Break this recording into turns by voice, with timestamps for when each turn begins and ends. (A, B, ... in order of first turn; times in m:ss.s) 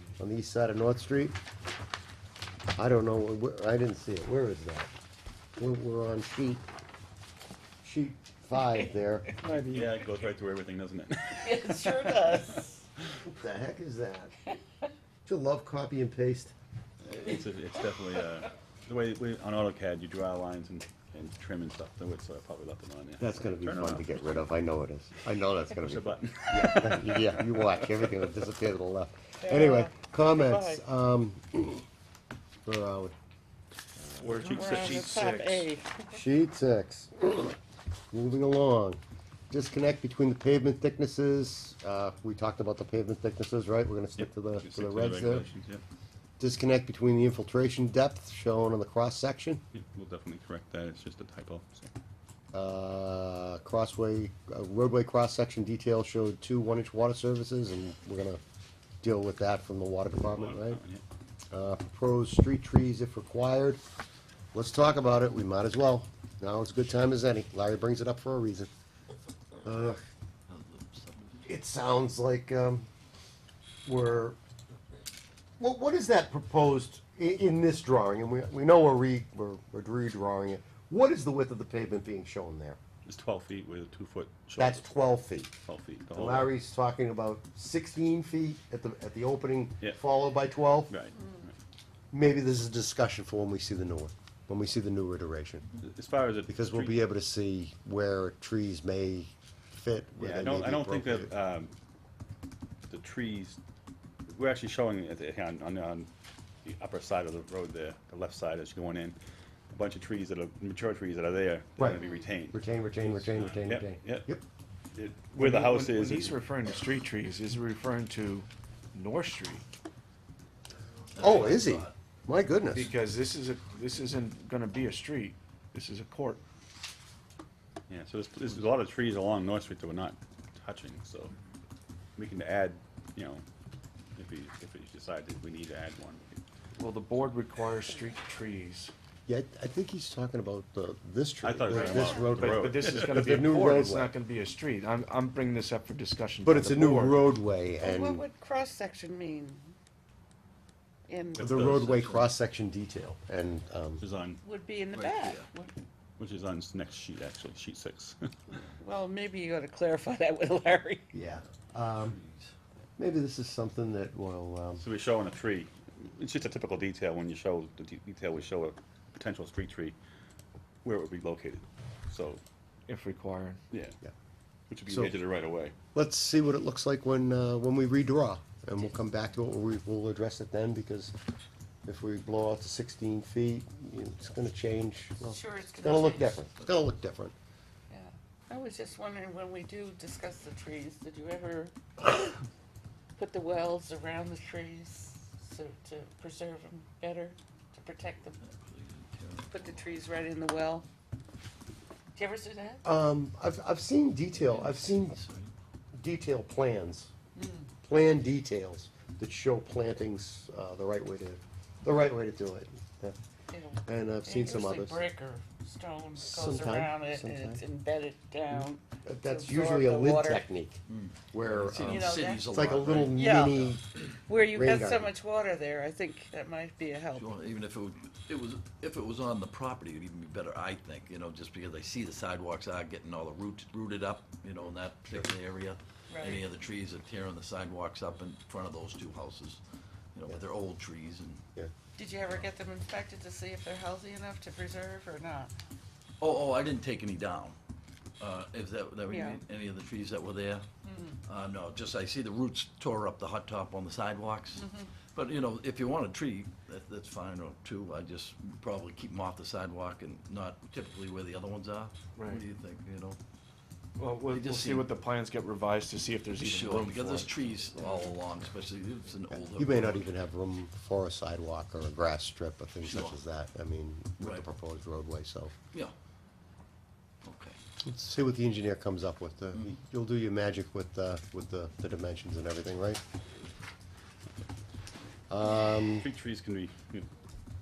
0:00.2-0:01.4 A
0:02.8-0:04.9 A
0:05.6-0:06.6 A
0:07.8-0:09.5 A
0:09.4-0:09.9 B
0:09.6-0:13.0 C
0:11.3-0:12.8 D
0:13.2-0:14.3 A
0:14.5-0:14.9 D
0:15.2-0:16.5 A
0:17.0-0:24.1 C
0:23.2-0:31.8 A
0:25.8-0:28.3 C
0:29.4-0:30.8 D
0:32.6-0:33.1 A
0:34.1-0:35.7 B
0:34.4-0:34.9 C
0:34.5-0:36.2 D
0:36.1-0:37.6 A
0:38.1-0:45.4 A
0:44.2-0:45.8 C
0:46.4-0:49.6 A
0:49.7-0:51.9 C
0:52.5-0:58.4 A
0:59.0-1:00.8 A
1:00.2-1:01.0 C
1:01.5-1:03.8 A
1:04.5-1:08.7 A
1:09.6-1:10.0 A
1:10.5-1:11.4 E
1:11.4-1:12.9 A
1:13.8-1:14.4 A
1:15.6-1:22.8 A
1:23.0-1:24.9 C
1:24.6-1:25.5 A
1:25.6-1:26.5 C
1:26.1-1:30.9 A
1:30.9-1:31.5 C
1:32.1-1:35.7 A
1:35.8-1:37.1 C
1:36.5-1:41.3 A
1:40.2-1:41.7 C
1:42.9-1:43.6 C
1:44.3-1:46.1 C
1:46.6-1:49.2 C
1:49.7-1:52.6 C
1:51.8-1:54.4 A
1:53.3-1:54.3 C
1:54.9-1:56.4 C
1:55.3-1:59.6 B
2:01.1-2:01.9 E
2:01.2-2:02.9 A
2:02.7-2:06.4 B
2:07.9-2:11.3 C
2:12.2-2:13.4 C
2:14.2-2:16.4 C
2:16.8-2:18.9 B
2:19.3-2:24.1 A
2:21.4-2:23.2 C
2:21.7-2:22.3 D
2:22.3-2:27.3 B
2:26.4-2:28.2 A
2:27.8-2:29.7 D
2:31.1-2:31.5 D
2:31.4-2:34.0 A
2:31.4-2:32.3 E
2:34.0-2:34.4 C
2:34.4-2:35.7 D
2:34.9-2:35.5 E
2:36.2-2:38.6 C
2:38.7-2:41.1 D
2:41.1-2:42.2 A
2:41.8-2:42.5 E
2:43.0-2:44.8 A
2:44.8-2:50.0 C
2:50.8-2:52.4 C
2:52.9-2:53.6 B
2:54.7-2:55.7 C
2:54.9-2:55.1 A
2:55.9-3:01.1 A
3:01.8-3:07.3 A
3:05.2-3:06.4 D
3:07.9-3:12.4 D
3:13.2-3:18.4 D
3:18.4-3:20.1 E
3:19.5-3:20.9 D
3:22.1-3:22.8 D
3:22.8-3:25.2 A
3:24.3-3:25.5 E
3:25.9-3:27.1 A
3:27.3-3:27.7 D
3:27.8-3:33.2 A
3:33.5-3:40.4 D
3:33.8-3:35.0 A
3:36.2-3:37.6 A
3:38.5-3:45.1 A
3:40.9-3:43.8 E
3:41.9-3:42.4 D
3:43.2-3:43.5 D
3:44.2-3:47.3 D
3:47.2-3:59.6 E
3:56.1-3:56.4 D
4:00.1-4:01.4 E
4:02.0-4:05.5 D
4:06.2-4:07.6 E
4:08.2-4:10.6 E
4:09.1-4:09.4 D
4:10.8-4:11.2 D
4:11.2-4:23.2 E
4:14.6-4:14.9 D
4:22.2-4:22.4 B
4:24.0-4:27.5 B
4:24.3-4:24.9 E
4:26.4-4:30.1 E
4:29.5-4:35.5 A
4:32.8-4:33.2 E
4:34.2-4:34.4 E
4:37.2-4:37.6 E
4:37.8-4:43.0 A
4:45.3-4:46.1 A
4:45.9-4:47.1 C